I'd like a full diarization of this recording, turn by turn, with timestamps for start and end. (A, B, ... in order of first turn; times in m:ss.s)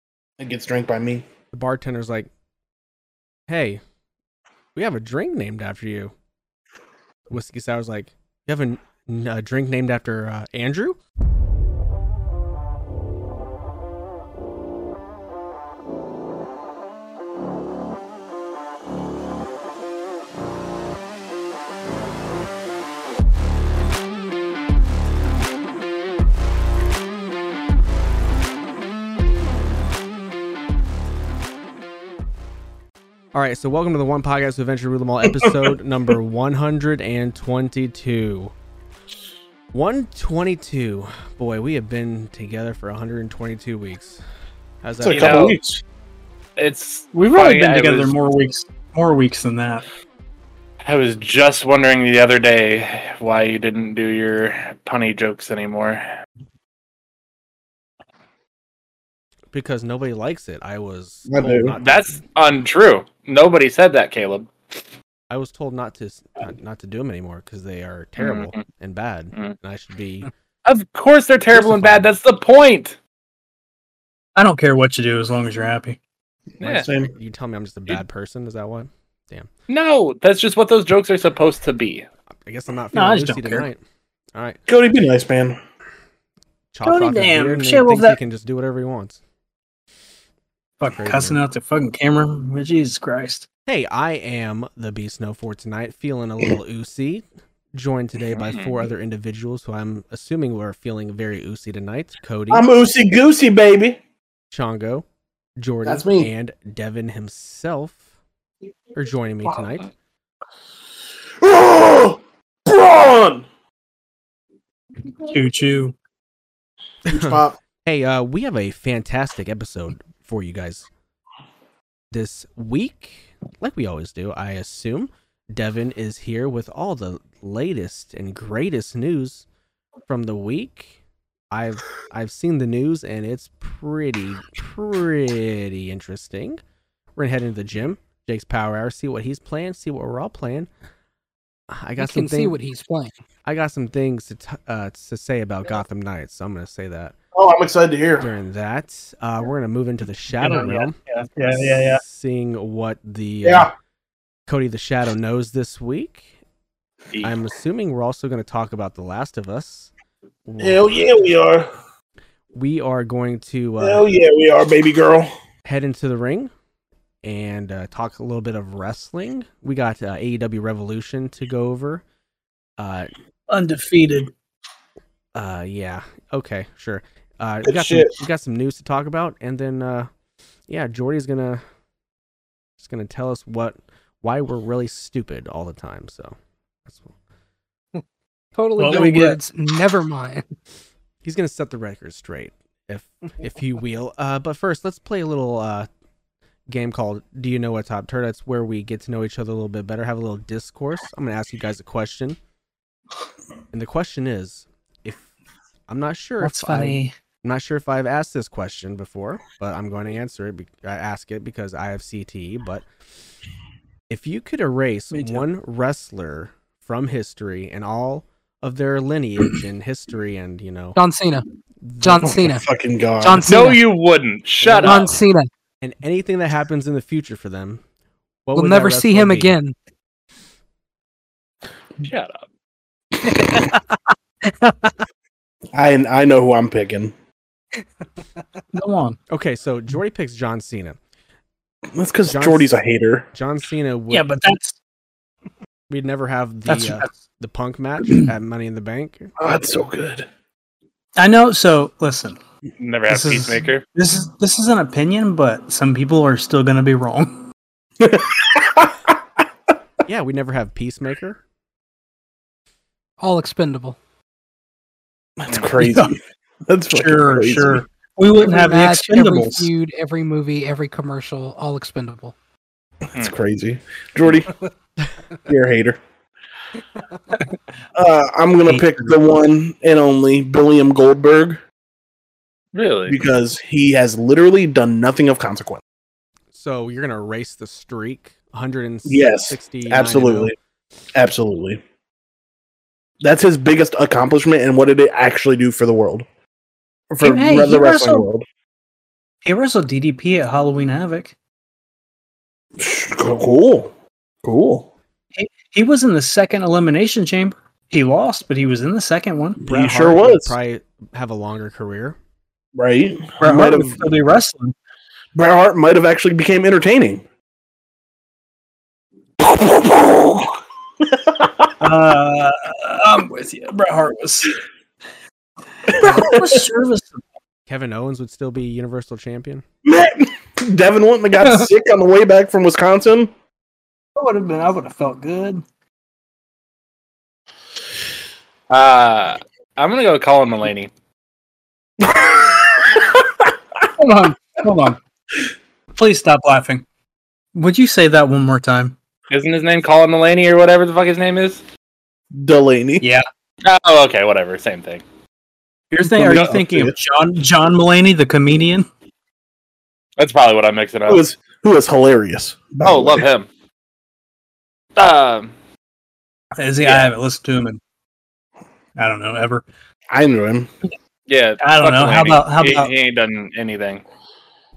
0:00.4-0:01.2 A
0:01.5-0:02.3 B
0:03.5-0:03.8 B
0:04.8-0:06.1 B
0:07.3-0:11.0 B
0:33.3-0:38.5 B
0:39.7-0:44.2 B
0:44.8-0:45.4 B
0:45.0-0:45.8 A
0:45.1-0:45.6 C
0:46.6-0:48.1 C
0:47.1-0:49.8 D
0:50.8-0:56.1 C
0:59.5-1:02.2 B
1:01.3-1:01.7 A
1:01.8-1:04.5 C
1:05.3-1:10.3 B
1:08.2-1:08.6 C
1:10.6-1:13.0 C
1:11.5-1:12.1 B
1:14.4-1:16.0 D
1:16.6-1:16.9 C
1:16.6-1:19.5 B
1:16.8-1:17.1 A
1:19.7-1:22.1 C
1:22.4-1:23.8 B
1:22.9-1:23.7 D
1:24.7-1:25.6 A
1:26.7-1:29.2 B
1:26.8-1:28.2 D
1:30.8-1:33.5 D
1:30.9-1:31.4 B
1:33.7-1:42.7 B
1:38.3-1:38.9 C
1:42.5-1:44.0 A
1:44.5-1:45.0 B
1:45.6-1:48.0 B
1:45.8-1:46.3 A
1:48.9-1:49.9 B
1:51.4-1:53.4 A
1:55.2-1:55.9 D
1:57.0-2:00.9 B
1:57.1-1:57.6 A
2:02.1-2:09.4 B
2:10.1-2:11.0 B
2:11.5-2:16.6 B
2:17.2-2:20.7 B
2:21.7-2:22.6 B
2:22.0-2:23.1 E
2:23.4-2:27.2 B
2:27.3-2:28.3 A
2:28.2-2:31.0 B
2:30.4-2:32.0 D
2:31.5-2:33.7 B
2:33.4-2:33.7 A
2:34.5-2:36.3 B
2:37.2-2:39.9 B
2:40.4-2:40.9 B
2:40.6-2:41.7 A
2:42.5-2:44.0 B
2:43.8-2:45.3 A
2:45.6-2:46.5 B
2:47.2-2:52.0 B
2:52.8-2:53.1 B
2:53.5-2:54.3 D
2:55.3-3:00.1 B
2:57.6-2:58.2 A
3:00.7-3:01.6 B
3:02.8-3:06.3 B
3:06.9-3:07.1 B
3:08.6-3:10.4 E
3:08.8-3:09.4 D
3:11.2-3:15.9 B
3:16.7-3:22.4 B
3:23.7-3:25.3 B
3:25.9-3:32.9 B
3:26.4-3:27.1 D
3:34.1-3:41.0 B
3:35.1-3:35.4 D
3:41.0-3:41.4 E
3:41.8-3:42.6 B
3:42.0-3:42.7 E
3:42.3-3:43.4 A
3:43.2-3:43.8 E
3:43.5-3:45.1 C
3:44.6-3:45.2 B
3:44.8-3:45.5 E
3:45.8-3:47.8 B
3:48.5-3:49.6 B
3:48.6-3:49.8 E
3:52.0-3:52.4 C
3:53.2-3:53.9 D
3:54.5-3:54.9 D
3:55.7-3:57.1 A
3:58.7-3:59.2 D
3:59.3-4:01.0 B
4:02.0-4:03.3 A
4:02.3-4:02.7 B
4:03.3-4:04.3 B
4:04.1-4:04.8 D
4:05.9-4:09.3 B
4:06.7-4:07.1 D
4:08.0-4:08.3 D
4:09.4-4:10.3 A
4:11.2-4:12.4 D
4:12.8-4:13.8 C
4:13.1-4:17.4 D
4:18.0-4:19.1 A
4:20.1-4:21.4 B
4:23.2-4:24.0 E
4:25.4-4:27.8 A
4:25.8-4:26.1 D
4:26.9-4:29.7 D
4:28.4-4:32.3 E
4:33.1-4:34.5 A
4:35.5-4:36.0 A
4:37.9-4:41.6 A
4:38.7-4:39.1 D
4:42.7-4:43.2 C
4:43.1-4:45.8 A
4:46.5-4:50.6 B
4:49.0-4:50.6 A
4:51.1-4:51.8 A
4:53.2-4:56.2 A
4:57.1-4:58.4 A
4:57.2-4:58.3 D
4:59.4-5:01.3 D
5:02.8-5:03.9 A
5:04.4-5:04.9 A
5:05.4-5:10.1 D
5:09.6-5:10.6 A
5:09.7-5:12.2 B
5:12.8-5:14.0 A
5:13.4-5:14.7 D
5:15.4-5:17.2 A
5:19.4-5:21.7 A
5:21.8-5:24.6 D
5:25.9-5:27.2 D
5:25.9-5:26.6 A
5:27.7-5:29.6 B
5:29.8-5:33.3 A
5:34.2-5:35.6 D
5:38.7-5:40.9 C
5:42.0-5:42.9 A
5:44.0-5:45.0 D
5:45.9-5:46.8 D
5:47.6-5:49.0 D
5:49.3-5:51.6 C
5:52.3-5:53.1 A
5:53.0-5:53.3 D
5:53.6-5:55.0 C
5:55.9-5:58.9 D
5:56.0-5:56.9 A
6:00.2-6:01.2 C
6:01.1-6:03.2 A
6:02.8-6:03.5 C
6:05.0-6:05.5 C
6:06.6-6:07.8 D
6:06.8-6:07.1 C
6:09.0-6:09.6 D
6:10.1-6:10.7 A
6:11.3-6:14.0 C
6:11.6-6:12.9 D